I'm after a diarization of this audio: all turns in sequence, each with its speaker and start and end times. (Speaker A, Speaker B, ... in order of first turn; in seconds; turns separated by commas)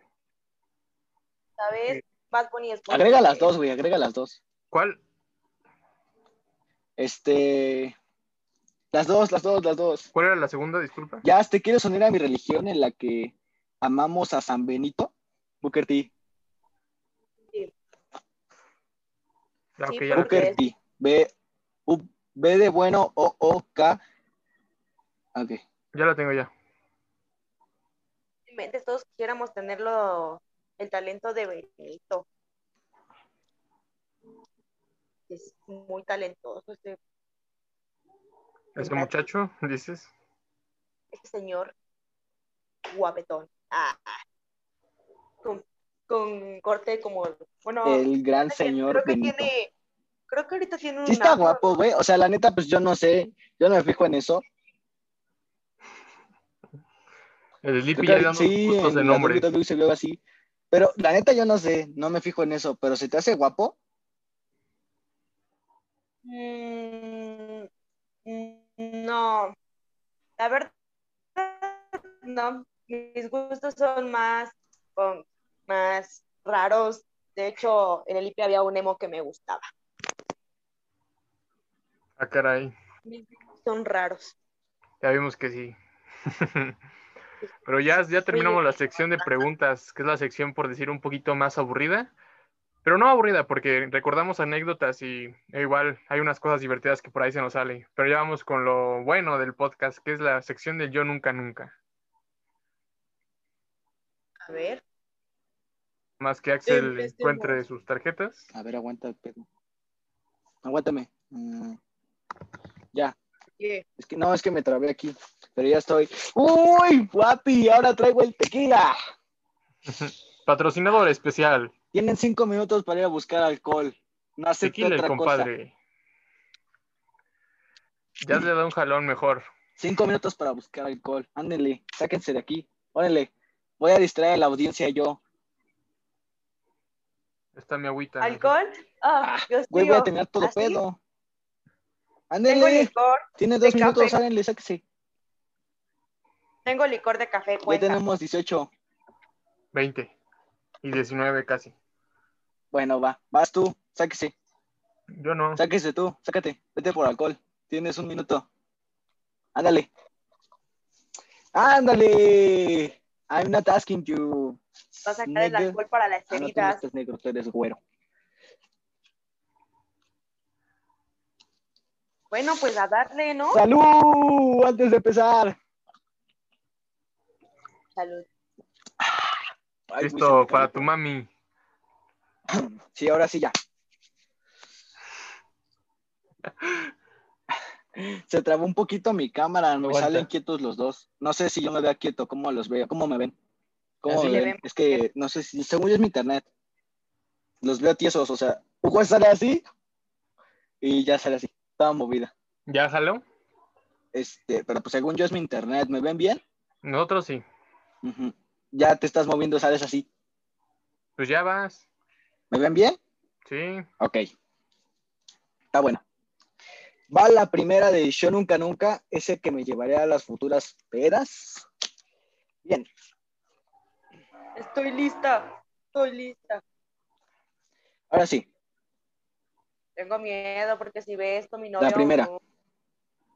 Speaker A: 1.6-3.5, Speaker B: 2.9-4.4, Speaker C: 4.7-5.0, Speaker B: 7.0-7.9, Speaker B: 8.9-10.1, Speaker C: 10.1-11.2, Speaker B: 11.2-15.1, Speaker B: 15.6-16.1, Speaker C: 19.8-20.5, Speaker A: 19.9-20.6, Speaker B: 20.1-21.3, Speaker B: 21.9-24.0, Speaker B: 25.3-25.6, Speaker C: 25.9-26.5, Speaker A: 28.5-32.2, Speaker A: 35.3-37.0, Speaker C: 38.8-40.1, Speaker B: 38.8-39.0, Speaker A: 41.1-41.7, Speaker A: 42.9-44.2, Speaker A: 45.4-49.7, Speaker B: 47.8-49.5, Speaker A: 50.3-51.8, Speaker B: 51.0-54.4, Speaker C: 57.6-59.5, Speaker B: 57.9-60.2, Speaker B: 60.7-63.7, Speaker A: 66.2-67.7, Speaker A: 68.2-69.5, Speaker A: 70.4-70.7, Speaker A: 71.3-79.6, Speaker C: 82.2-82.7, Speaker A: 83.0-84.3, Speaker C: 85.0-85.7, Speaker C: 86.2-86.7, Speaker C: 87.6-92.1, Speaker A: 87.9-89.4, Speaker C: 92.8-101.7, Speaker A: 104.5-104.8, Speaker C: 106.2-108.5, Speaker A: 106.7-107.6, Speaker B: 108.5-109.5, Speaker B: 110.6-111.8, Speaker A: 113.6-113.8, Speaker B: 114.0-119.0, Speaker C: 119.9-121.7, Speaker B: 121.9-125.5, Speaker C: 124.6-125.7, Speaker C: 128.2-129.4, Speaker B: 129.8-135.2, Speaker C: 137.6-138.5, Speaker A: 138.2-140.8, Speaker B: 139.2-141.0, Speaker B: 142.3-144.8, Speaker A: 142.5-144.2, Speaker A: 146.6-148.0, Speaker B: 147.7-148.7, Speaker C: 149.7-150.1, Speaker C: 150.8-151.7, Speaker B: 152.7-154.3, Speaker C: 155.2-155.6, Speaker B: 155.6-158.4, Speaker B: 159.5-159.9, Speaker B: 161.5-165.8, Speaker A: 165.1-166.8, Speaker B: 166.3-167.8, Speaker A: 172.3-173.6, Speaker B: 173.5-175.6, Speaker A: 177.9-178.2, Speaker B: 179.0-180.9, Speaker C: 180.0-181.3, Speaker B: 182.5-183.5, Speaker C: 186.6-186.9, Speaker B: 187.9-193.3, Speaker C: 189.8-190.3, Speaker B: 194.0-196.5, Speaker A: 194.1-195.0, Speaker B: 197.6-199.6, Speaker B: 200.8-202.3, Speaker C: 202.7-203.2, Speaker B: 204.1-206.4, Speaker C: 206.8-207.4, Speaker B: 208.0-210.1, Speaker C: 211.2-211.8, Speaker B: 212.5-213.0, Speaker C: 213.4-213.9, Speaker B: 214.0-214.2, Speaker B: 215.7-216.0, Speaker B: 217.1-221.7, Speaker A: 224.6-226.6, Speaker B: 228.1-228.4, Speaker A: 230.0-232.4, Speaker B: 231.8-232.3